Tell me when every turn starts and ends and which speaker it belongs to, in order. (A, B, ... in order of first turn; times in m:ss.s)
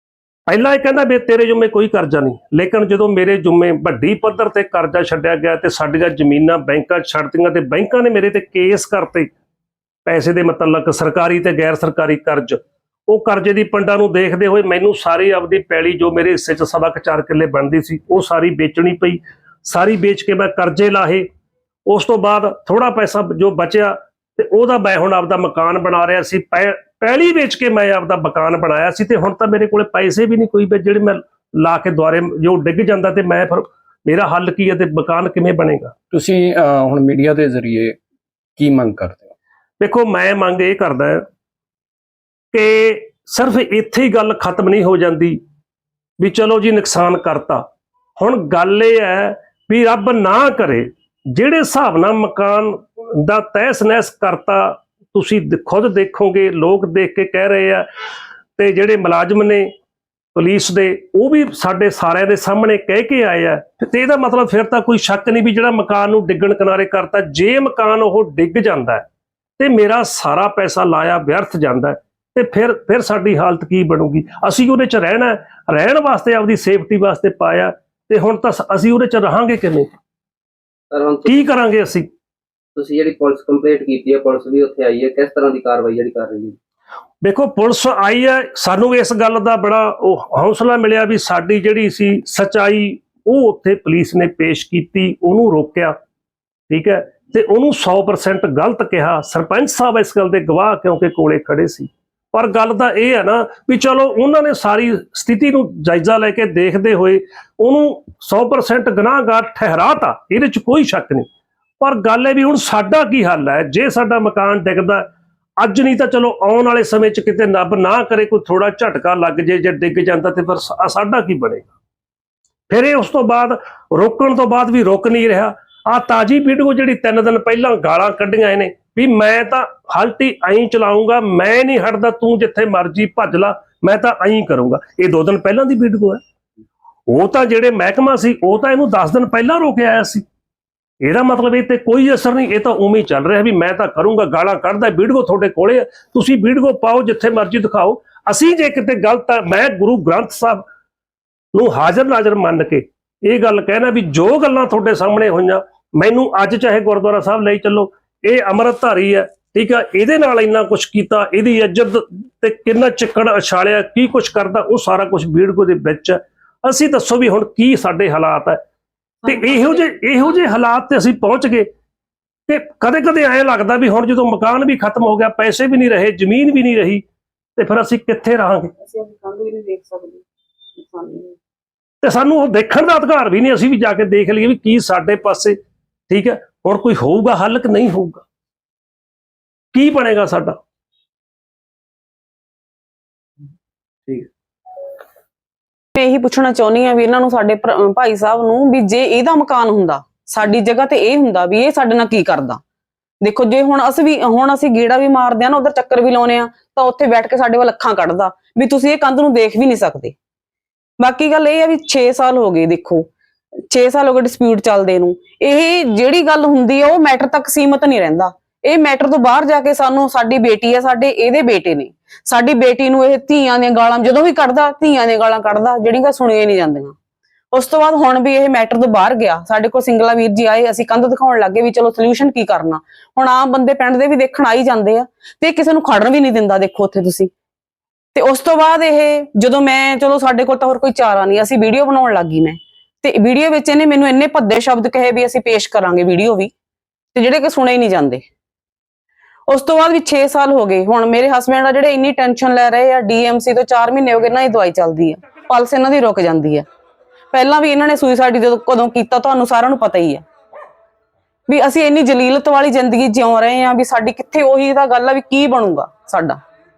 0:00.5-0:09.3 A
0:10.0-0:21.3 A
0:21.9-0:35.9 A
0:36.1-0:38.0 B
0:38.6-0:39.3 B
0:39.8-0:41.2 A
0:42.5-0:45.4 A
0:46.2-0:47.6 A
0:48.2-0:57.9 A
0:58.6-0:59.7 A
1:00.3-1:09.0 A
1:09.6-1:19.9 A
1:20.9-1:21.4 C
1:21.2-1:22.1 A
1:22.8-1:26.6 C
1:27.2-1:36.0 A
1:36.7-1:51.3 A
1:51.8-1:55.1 A
1:55.6-2:01.7 A
2:02.7-2:16.2 A
2:17.1-2:20.2 A
2:21.0-2:30.6 A
2:31.5-2:48.6 A
2:49.2-2:49.6 D
2:49.2-2:51.7 A
2:52.5-2:57.0 A
2:57.6-2:58.7 A
2:58.8-3:00.2 D
3:00.8-3:01.4 D
3:02.0-3:05.6 A
3:06.1-3:08.2 A
3:09.7-3:10.6 A
3:16.0-3:22.6 D
3:23.2-3:30.1 D
3:31.0-3:33.1 D
3:33.7-3:46.9 D
3:47.5-3:57.3 D
3:58.1-4:06.5 D
4:07.1-4:08.2 D
4:09.5-4:16.6 D
4:17.3-4:20.2 D
4:21.5-4:26.4 D